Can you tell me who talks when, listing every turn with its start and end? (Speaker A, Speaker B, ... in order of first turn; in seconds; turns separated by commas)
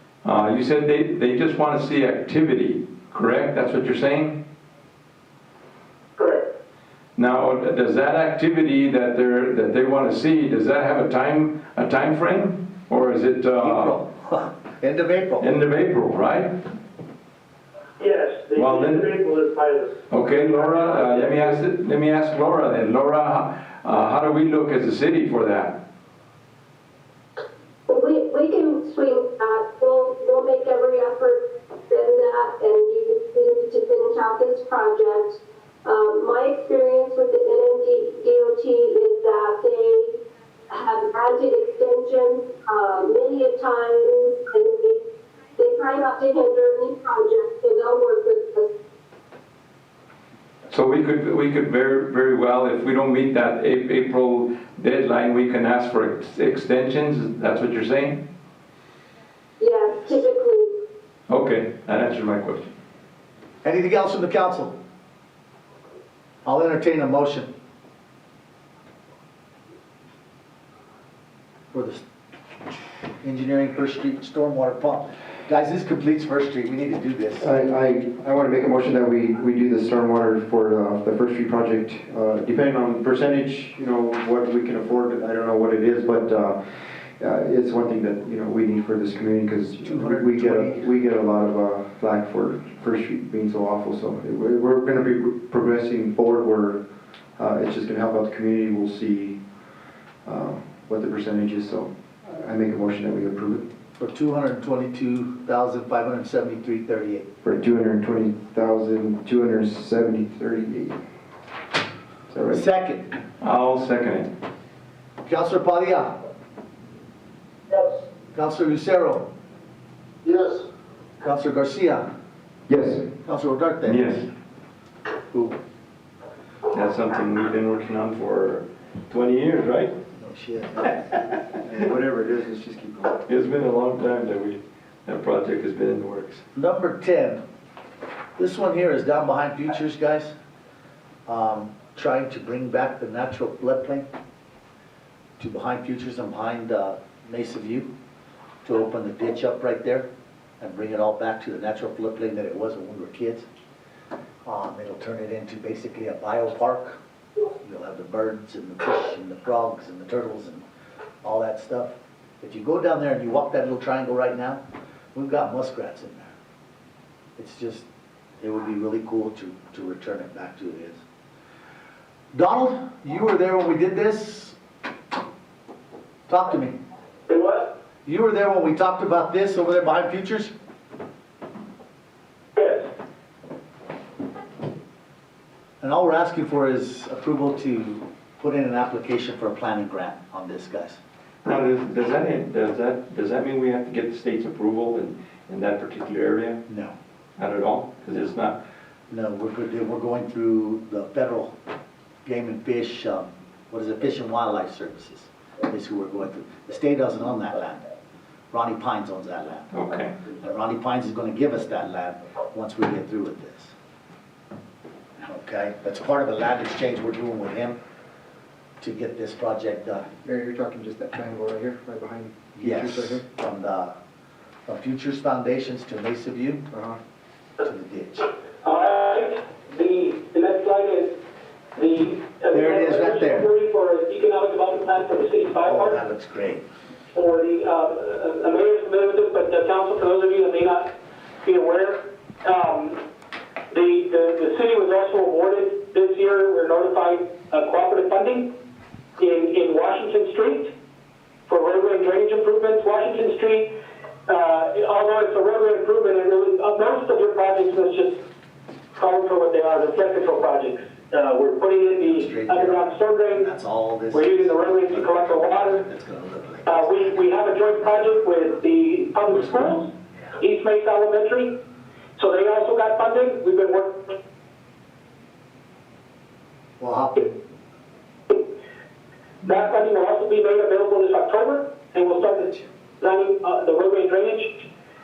Speaker A: 0.2-4.4, Speaker A: 7.2-14.0, Speaker B: 13.6-15.5, Speaker A: 15.4-16.6, Speaker C: 18.0-19.9, Speaker A: 18.6-19.1, Speaker A: 20.1-25.8, Speaker C: 20.6-21.4, Speaker D: 27.9-40.2, Speaker D: 40.7-45.0, Speaker D: 45.6-48.7, Speaker A: 50.7-58.3, Speaker D: 59.6-60.7, Speaker A: 61.3-62.7, Speaker B: 63.6-64.8, Speaker B: 66.4-67.5, Speaker B: 71.7-72.0, Speaker B: 73.2-77.5, Speaker E: 77.4-96.8, Speaker B: 89.8-90.8, Speaker E: 97.4-99.4, Speaker E: 100.3-103.7, Speaker B: 104.0-107.3, Speaker E: 107.4-111.0, Speaker E: 112.3-112.6, Speaker B: 112.5-113.1, Speaker A: 113.4-114.3, Speaker B: 115.2-116.1, Speaker B: 118.3-119.3, Speaker E: 120.2-120.6, Speaker B: 121.2-122.1, Speaker E: 122.7-123.1, Speaker B: 123.2-124.0, Speaker A: 123.9-124.3, Speaker B: 125.3-125.6, Speaker A: 126.7-129.9, Speaker B: 130.2-131.0, Speaker E: 131.6-133.2, Speaker A: 133.3-136.4, Speaker B: 136.6-137.4, Speaker B: 138.4-140.3, Speaker B: 141.3-144.1, Speaker B: 145.4-147.9, Speaker B: 148.6-150.1, Speaker B: 150.6-153.5, Speaker B: 154.4-157.0, Speaker B: 157.6-160.6, Speaker B: 161.2-164.6, Speaker B: 165.2-166.3, Speaker B: 167.4-167.9, Speaker B: 168.4-171.0, Speaker B: 172.3-174.6, Speaker B: 176.3-176.8, Speaker C: 177.3-177.7, Speaker B: 178.1-180.5, Speaker C: 182.6-182.8, Speaker B: 185.8-191.0, Speaker A: 191.4-196.6, Speaker B: 196.7-196.9, Speaker A: 197.4-198.6, Speaker B: 199.1-201.5, Speaker B: 202.2-207.9, Speaker B: 208.5-209.7, Speaker A: 209.7-210.2, Speaker B: 210.3-213.7, Speaker B: 215.2-217.8, Speaker B: 218.8-220.1, Speaker E: 220.2-223.2, Speaker B: 222.6-223.9, Speaker B: 224.7-226.6, Speaker E: 226.7-227.0, Speaker B: 227.6-228.3, Speaker C: 228.6-231.2, Speaker C: 231.8-236.0, Speaker B: 232.5-233.5, Speaker B: 235.6-236.6, Speaker C: 237.1-240.9, Speaker C: 241.4-243.0, Speaker C: 243.7-248.5, Speaker C: 249.2-250.7, Speaker C: 251.5-253.7, Speaker C: 254.3-258.2, Speaker C: 258.9-263.5, Speaker B: 262.0-267.6, Speaker C: 264.1-265.8, Speaker C: 266.7-269.9, Speaker C: 270.4-271.6, Speaker C: 272.2-274.1, Speaker B: 276.8-277.4, Speaker C: 279.4-284.6, Speaker B: 282.3-282.7